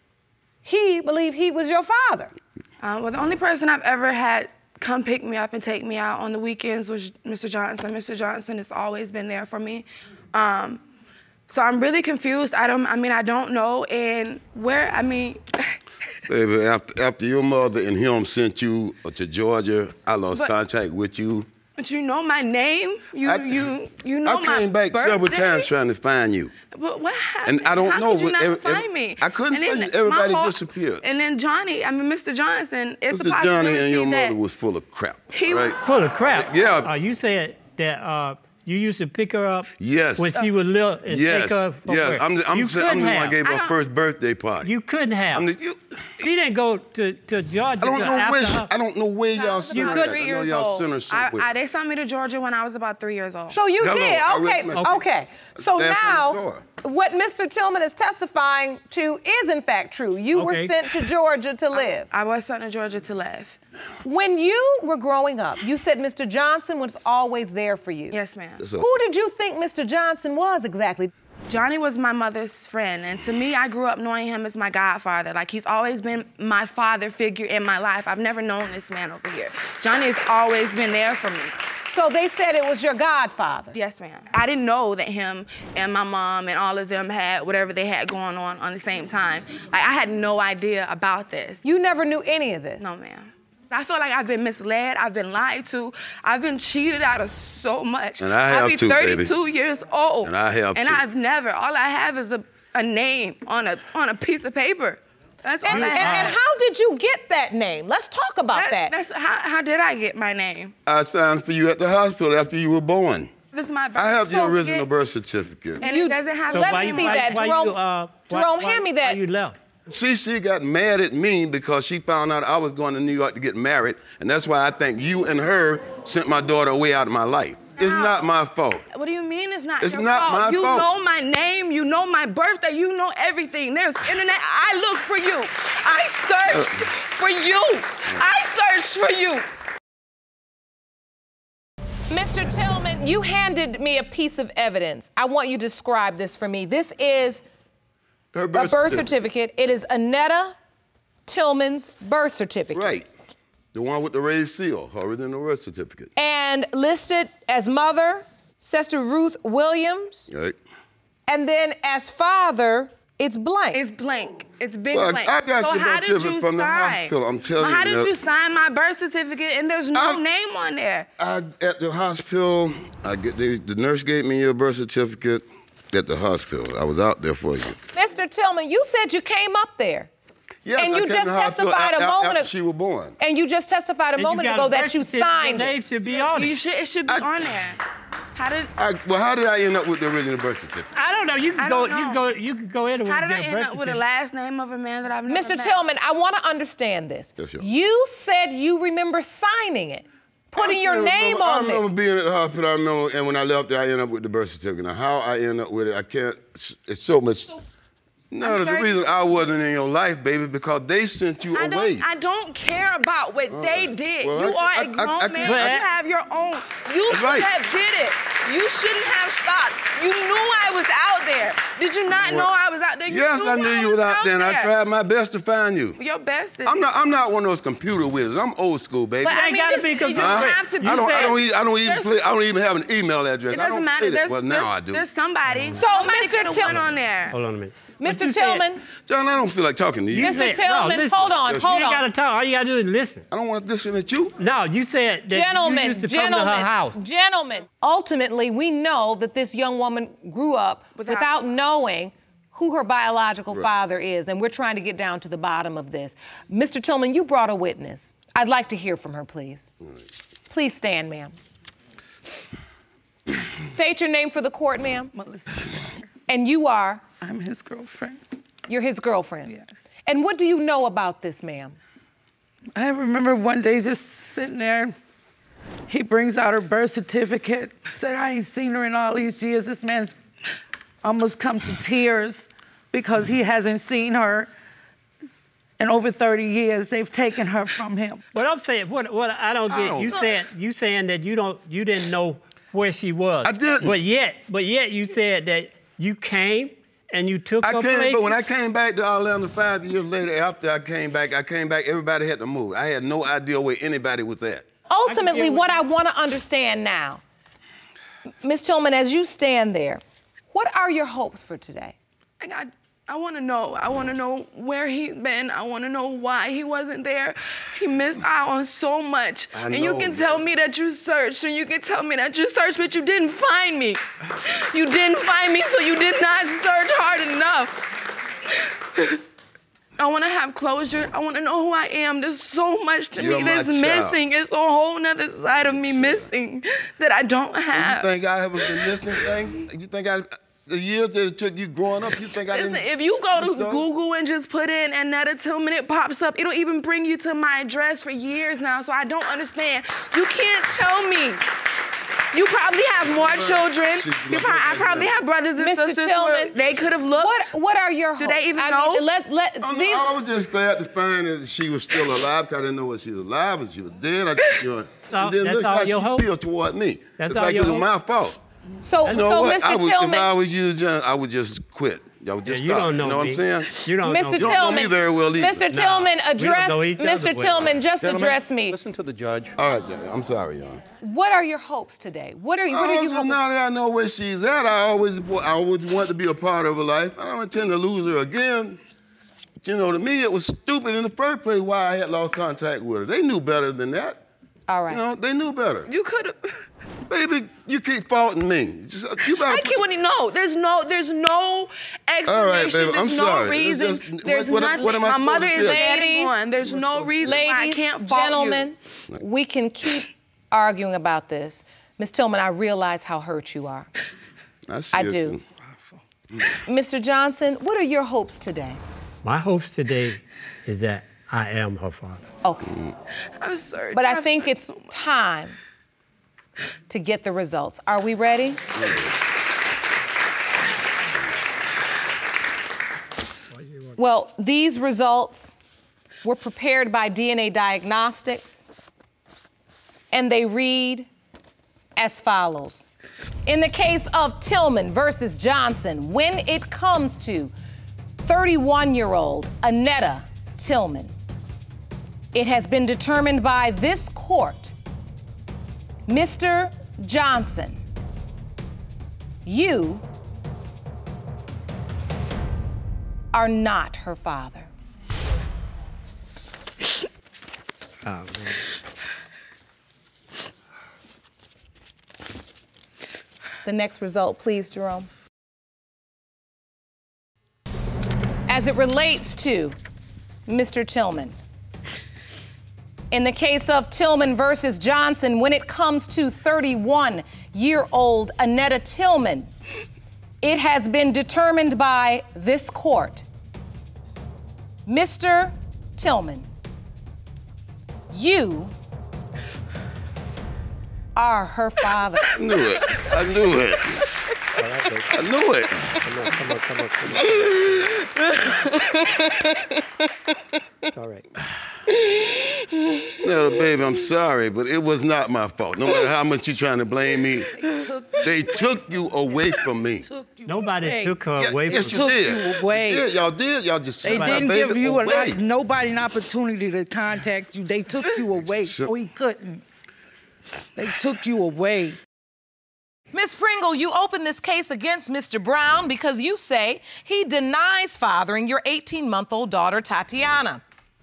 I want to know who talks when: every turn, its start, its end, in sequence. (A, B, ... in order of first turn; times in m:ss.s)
0:00.6-0:02.3 A
0:02.8-0:10.8 B
0:11.5-0:15.8 B
0:16.3-0:21.5 C
0:21.8-0:25.7 B
0:23.2-0:23.7 C
0:24.2-0:26.5 C
0:26.7-0:34.4 B
0:27.4-0:31.0 C
0:33.1-0:36.9 C
0:35.3-0:35.9 B
0:35.8-0:43.4 D
0:39.8-0:40.3 C
0:41.0-0:44.7 C
0:43.4-0:43.8 B
0:44.6-0:45.4 D
0:45.3-0:46.1 C
0:46.2-0:48.7 D
0:47.8-0:51.5 C
0:49.4-0:53.6 B
0:49.6-0:50.0 A
0:53.5-1:02.1 A
0:53.8-0:54.9 C
0:55.6-0:56.6 C
1:00.3-1:00.7 D
1:02.1-1:03.6 B
1:04.0-1:08.2 A
1:08.1-1:08.6 B
1:08.6-1:08.9 C
1:08.8-1:11.1 A
1:11.5-1:21.6 B
1:21.8-1:23.7 A
1:23.7-1:31.6 B
1:31.6-1:32.8 A
1:32.8-1:46.4 B
1:38.2-1:39.3 C
1:40.2-1:41.0 C
1:45.6-1:48.9 A
1:45.7-1:46.4 D
1:48.5-1:50.7 B
1:50.8-1:53.3 C
1:53.5-1:54.9 B
1:53.9-1:55.8 C
1:55.8-1:57.4 B
1:55.8-1:57.8 A
1:56.5-1:59.6 D
1:58.3-1:59.2 A
1:59.9-2:08.8 C
2:07.8-2:08.3 B
2:08.9-2:19.4 B
2:09.8-2:10.9 C
2:16.5-2:16.8 C
2:22.1-2:27.4 A
2:28.3-2:29.1 C
2:28.5-2:30.6 A
2:31.2-2:33.0 A
2:32.7-2:33.1 C
2:33.7-2:36.1 C
2:36.2-2:40.3 A
2:40.3-2:40.6 C
2:41.3-2:43.8 A
2:43.7-2:51.1 B
2:44.9-2:48.1 C
2:49.9-2:50.2 C
2:51.2-2:57.8 C
2:57.9-3:00.1 A
3:00.6-3:03.1 C
3:00.8-3:02.5 A
3:03.2-3:05.7 A
3:04.2-3:06.6 D
3:06.2-3:07.8 B
3:08.4-3:08.7 B
3:08.8-3:10.9 C
3:10.9-3:14.0 D
3:11.6-3:12.2 B
3:13.0-3:15.8 B
3:15.3-3:21.8 A
3:17.4-3:17.6 C
3:20.6-3:27.6 C
3:28.3-3:32.0 C
3:28.4-3:29.0 B
3:31.5-3:44.7 B
3:33.5-3:35.6 C
3:35.4-3:35.8 D
3:37.1-3:37.5 C
3:42.2-3:42.5 C
3:43.0-3:46.0 C
3:46.0-3:46.9 B
3:46.6-3:49.4 C
3:49.2-3:52.2 B
3:49.2-3:51.3 D
3:50.1-3:55.0 C
3:53.5-3:57.4 B
3:55.5-3:55.8 D
3:55.7-3:56.8 A
3:56.7-3:58.7 D
3:58.0-3:58.8 A
3:59.0-4:00.5 C
4:00.1-4:03.2 D
4:00.2-4:02.0 A
4:03.3-4:04.3 C
4:04.4-4:07.0 D
4:05.3-4:19.7 A
4:10.9-4:11.3 B
4:20.5-4:21.4 A
4:23.6-4:25.1 A
4:25.1-4:25.8 E
4:26.3-4:27.0 A
4:27.2-4:28.2 E
4:28.7-4:29.5 A
4:29.4-4:29.8 E
4:30.0-4:31.8 A
4:32.8-4:34.9 E
4:35.9-4:40.2 E
4:41.0-4:44.5 E
4:45.8-4:48.2 E
4:48.3-4:58.4 D
4:49.7-4:50.2 C
4:53.4-4:54.0 C
4:57.6-5:04.6 C
5:04.9-5:07.2 A
5:05.1-5:05.8 D
5:08.4-5:10.0 A
5:10.5-5:12.0 A
5:12.4-5:27.8 B
5:19.5-5:20.4 C
5:28.5-5:29.2 B
5:30.0-5:39.4 B
5:33.1-5:34.2 C
5:35.7-5:36.3 C
5:37.7-5:43.8 C
5:42.5-5:51.4 B
5:52.3-5:57.5 B
5:53.1-5:55.1 C
5:55.6-5:56.5 A
5:57.2-6:00.1 A
5:58.2-5:59.0 B
5:59.6-6:08.4 C
6:05.1-6:06.2 D
6:07.2-6:07.9 D
6:08.8-6:10.3 A
6:09.0-6:15.6 C
6:12.4-6:14.7 D
6:14.0-6:18.8 A
6:15.7-6:17.8 D
6:18.0-6:19.6 F
6:19.5-6:20.8 C
6:21.0-6:23.4 A
6:22.7-6:28.8 C
6:29.6-6:34.2 C
6:34.7-6:35.0 A
6:34.9-6:35.9 C
6:35.8-6:36.6 B
6:37.1-6:39.8 C
6:39.3-6:48.7 B
6:42.2-6:45.8 C
6:45.5-6:46.3 A
6:46.7-6:47.4 C
6:47.2-6:53.9 A
6:54.7-6:55.5 C
6:54.9-6:55.4 A
6:56.6-6:58.8 A
6:59.2-7:02.2 D
7:02.7-7:02.9 C
7:03.4-7:05.1 B
7:03.9-7:05.6 A
7:06.9-7:08.6 A
7:08.8-7:09.1 C
7:13.5-7:13.9 F
7:14.0-7:15.6 A
7:16.2-7:18.6 A
7:20.1-7:21.1 A
7:22.0-7:22.8 A
7:23.4-7:27.5 A
7:28.2-7:31.1 A
7:32.3-7:34.7 A
7:36.1-7:37.8 A
7:39.4-7:40.0 A
7:43.3-7:44.7 A
7:48.0-7:48.5 D
7:53.6-7:55.1 A
7:58.5-7:59.8 A
8:00.5-8:01.4 A
8:03.1-8:09.5 A
8:10.4-8:13.2 A
8:14.9-8:16.5 A
8:18.1-8:18.7 A
8:21.2-8:22.2 A
8:22.3-8:24.0 C
8:24.6-8:25.1 D
8:25.1-8:26.0 C
8:26.0-8:27.9 D
8:27.7-8:29.8 B
8:30.9-8:31.3 D
8:31.9-8:33.2 B
8:33.2-8:37.5 C
8:37.5-8:38.7 E
8:38.2-8:40.1 C
8:39.3-8:43.1 E
8:40.4-8:42.0 D
8:41.3-8:45.4 C
8:44.0-8:49.6 E
8:44.0-8:44.5 D
8:48.6-8:48.9 C
8:50.8-8:52.0 E
8:53.1-9:00.6 A